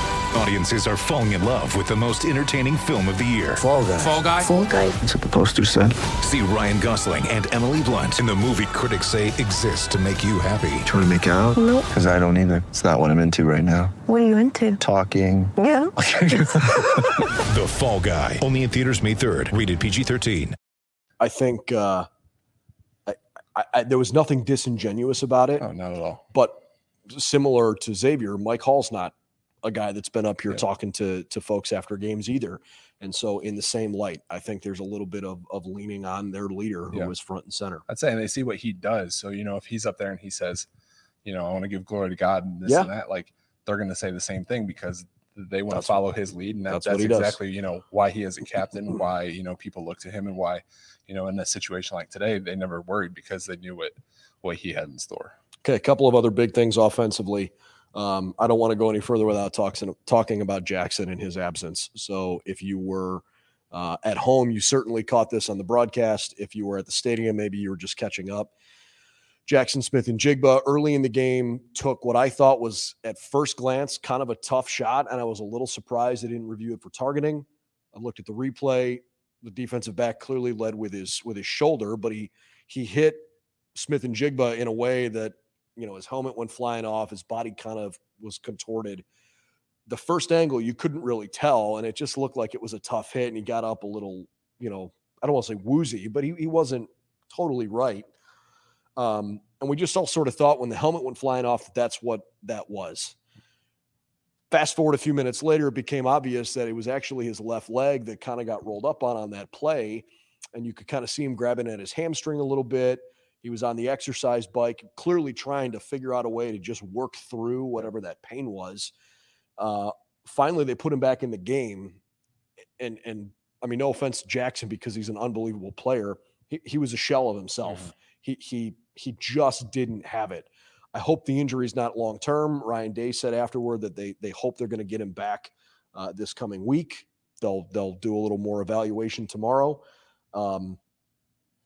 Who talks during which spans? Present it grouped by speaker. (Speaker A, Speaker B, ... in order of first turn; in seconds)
Speaker A: 0.3-4.5, 6.2-10.8, 17.4-20.6
Speaker B: 3.6-4.2, 5.0-6.0, 10.8-13.9, 14.8-17.2
Speaker C: 4.4-5.0, 11.5-11.9, 14.1-14.8, 15.6-15.9
Speaker D: 21.2-22.1, 23.1-25.6, 26.3-37.8, 45.7-46.0, 46.7-47.4, 55.6-68.5, 69.5-89.0, 89.9-98.1, 99.0-103.2, 104.5-118.9, 119.6-122.0, 122.8-139.8, 140.3-140.8
Speaker E: 25.6-26.2, 37.9-40.7, 41.2-55.3